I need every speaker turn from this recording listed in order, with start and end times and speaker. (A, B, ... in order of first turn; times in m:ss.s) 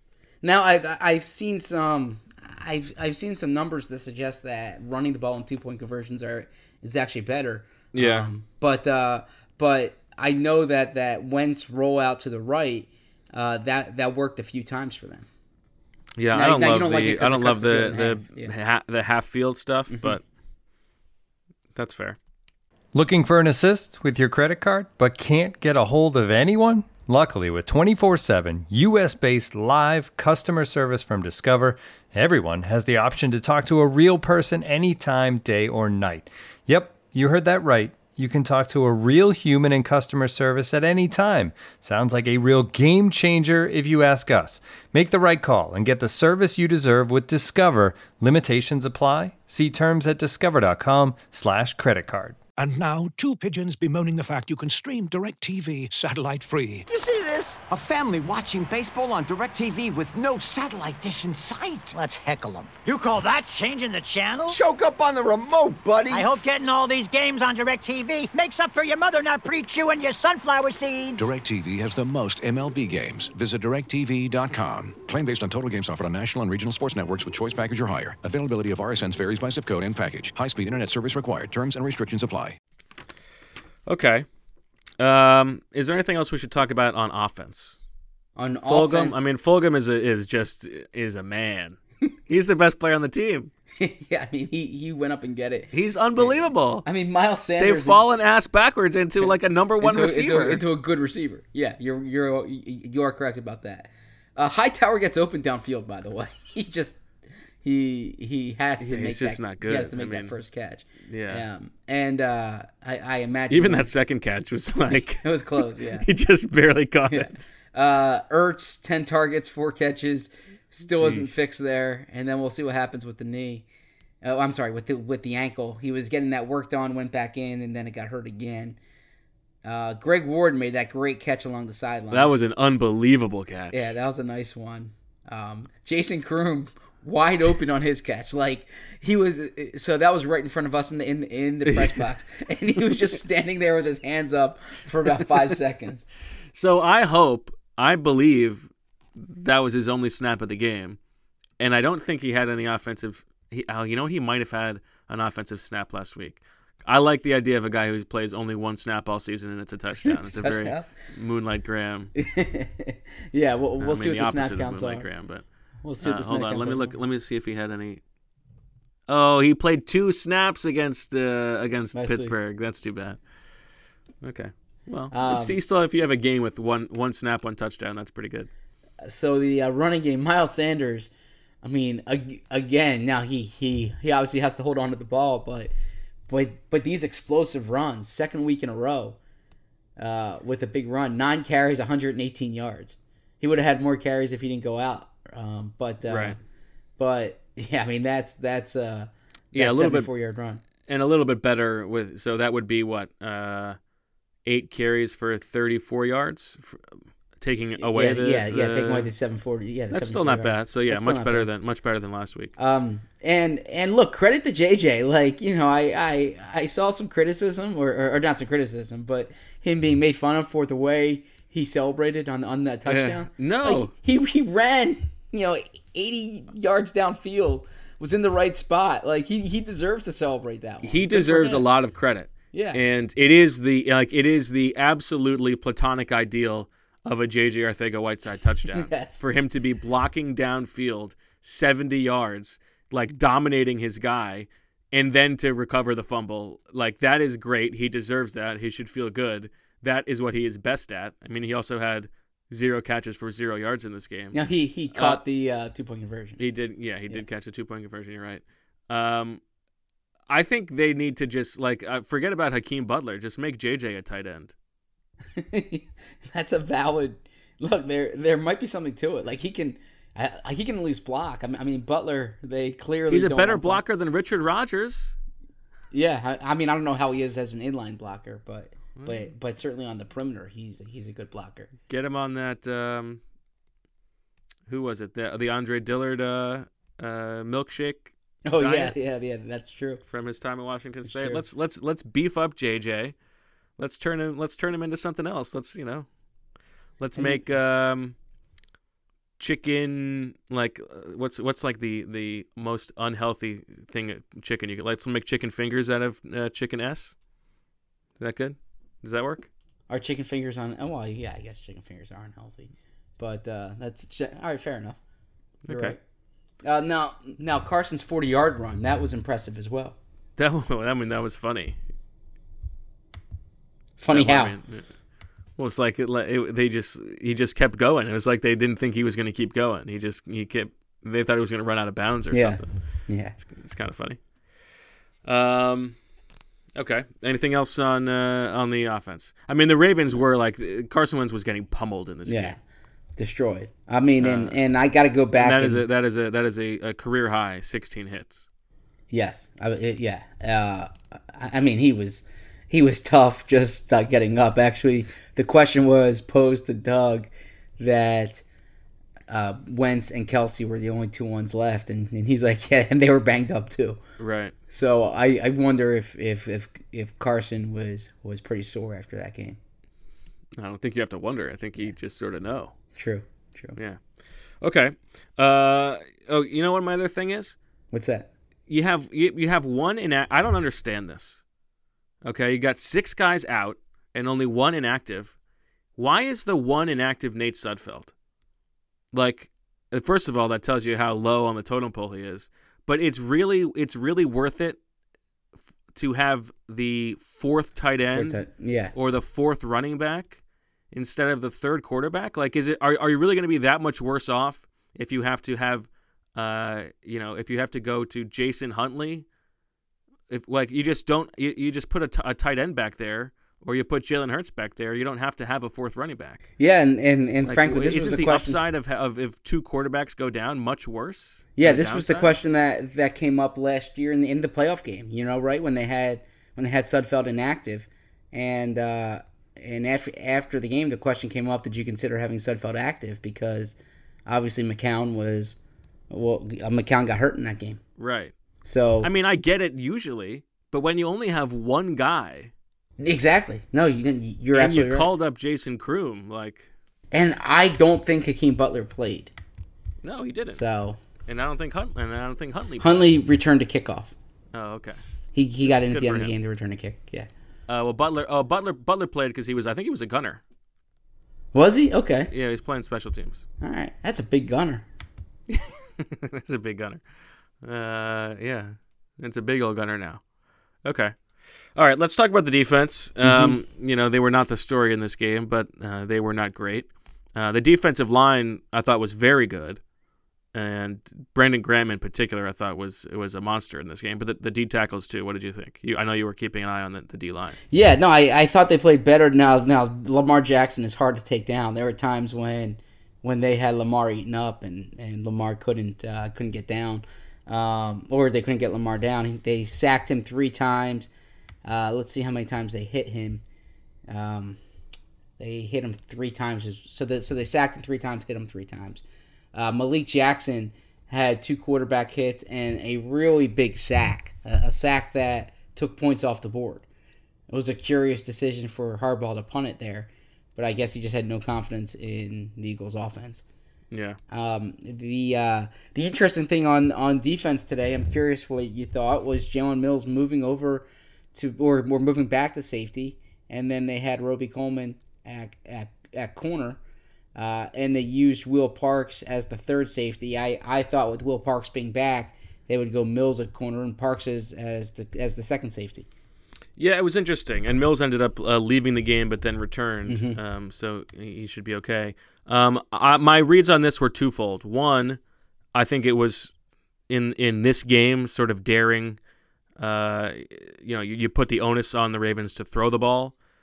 0:00.4-0:15.3 A
0:07.9-0:08.3 B
0:16.2-0:20.2 B
0:16.3-0:18.5 A
0:19.9-0:20.2 A
0:21.7-0:22.2 B
0:22.9-0:52.4 C
0:52.6-0:56.9 D
0:56.9-1:01.9 E
1:01.9-1:04.6 F
1:04.5-1:06.3 E
1:06.1-1:11.3 F
1:11.2-1:22.6 G
1:23.8-1:24.2 B
1:25.0-1:27.8 B
1:28.4-1:29.2 A
1:28.6-1:33.5 B
1:33.8-1:38.0 A
1:35.7-1:36.8 B
1:37.6-1:40.6 B
1:39.8-1:47.0 A
1:47.6-1:53.9 A
1:48.8-1:50.3 B
1:51.1-1:51.4 B
1:53.5-1:57.5 B
1:55.2-1:56.1 A
1:57.1-2:03.6 A
2:01.0-2:01.3 B
2:04.2-2:08.8 A
2:09.6-2:12.3 A
2:12.1-2:13.9 B
2:13.7-2:26.0 A
2:21.6-2:22.0 B
2:26.5-2:31.0 B
2:31.6-2:42.1 B
2:40.0-2:40.9 A
2:42.2-2:45.0 A
2:43.8-2:45.4 B
2:45.8-2:46.9 A
2:46.0-2:48.0 B
2:49.1-2:53.2 B
2:51.9-2:52.3 A
2:54.2-2:58.5 B
2:55.1-2:55.6 A
2:59.0-3:01.1 A
3:01.6-3:05.7 A
3:06.3-3:09.2 A
3:10.0-3:16.4 A
3:16.0-3:16.4 B
3:17.0-3:20.6 A
3:19.5-3:20.1 B
3:20.9-3:23.8 B
3:24.4-3:26.8 B
3:27.4-3:29.1 B
3:27.8-3:31.5 A
3:29.9-3:32.5 B
3:32.6-3:51.6 A
3:42.8-3:43.9 B
3:50.8-4:14.4 B
3:52.5-3:52.8 A
3:58.7-3:59.2 A
4:14.3-4:16.4 A
4:14.9-4:15.2 B
4:16.4-4:19.4 B
4:20.3-4:24.5 B
4:25.3-4:33.8 A
4:33.1-4:35.2 B
4:35.9-4:41.7 A
4:39.0-4:39.3 B
4:41.9-4:43.2 B
4:44.7-4:48.9 B
4:48.4-4:50.0 A
4:50.1-4:53.1 B
4:51.0-4:51.4 A
4:53.8-4:56.1 B
4:57.0-4:58.2 B
4:57.1-4:57.4 A
4:59.4-5:07.1 B
5:08.2-5:09.5 B
5:09.9-5:15.0 A
5:15.6-5:16.0 B
5:15.7-5:16.0 A
5:16.6-5:20.0 A
5:20.4-5:21.8 B
5:24.0-5:24.5 A
5:24.1-5:24.9 B
5:25.6-5:32.7 B
5:32.3-5:33.4 A
5:33.5-5:34.2 B
5:35.2-5:36.0 B
5:36.8-5:42.6 B
5:42.2-5:42.6 A
5:43.2-5:45.8 A
5:44.2-5:44.6 B
5:45.4-5:48.5 B
5:49.1-5:58.4 A
5:59.3-6:04.0 A
6:04.2-6:04.5 B
6:04.7-6:09.6 A
6:10.6-6:12.7 B
6:12.9-6:13.8 A
6:14.6-6:17.6 B
6:17.9-6:18.3 A
6:18.7-6:21.4 B
6:22.2-6:25.4 B
6:26.0-6:28.1 B
6:29.1-6:34.8 B
6:35.9-6:49.2 B
6:38.1-6:38.9 A
6:50.3-6:56.5 B
6:56.6-6:58.6 A
6:57.4-7:02.3 B
7:01.6-7:15.6 A
7:16.1-7:17.8 A
7:18.0-7:18.3 B
7:18.6-7:19.1 A
7:19.0-7:22.5 B
7:23.0-7:25.1 A
7:24.5-7:26.7 B
7:27.1-7:29.3 A
7:30.0-7:30.6 B
7:30.5-7:31.0 A
7:31.3-7:33.1 B
7:32.8-7:34.1 A
7:34.5-7:35.0 B
7:35.3-7:37.3 A
7:35.6-7:36.3 B
7:37.7-7:40.4 B
7:41.5-7:42.3 A
7:42.3-7:43.4 B
7:43.6-7:44.8 A
7:45.5-7:47.0 B
7:47.6-7:50.2 B
7:50.8-7:51.1 B
7:51.7-7:59.8 B
7:53.2-7:53.6 A
8:00.5-8:07.6 B
8:07.7-8:21.1 A
8:21.6-8:23.4 A
8:24.1-8:24.6 A
8:25.4-8:36.8 A
8:37.5-8:43.4 A
8:43.9-8:44.2 B
8:44.3-8:56.8 A
8:57.3-9:06.1 A
9:06.8-9:15.2 B
9:10.1-9:10.4 A
9:15.7-9:16.5 B
9:17.1-9:19.2 B
9:19.8-9:23.4 B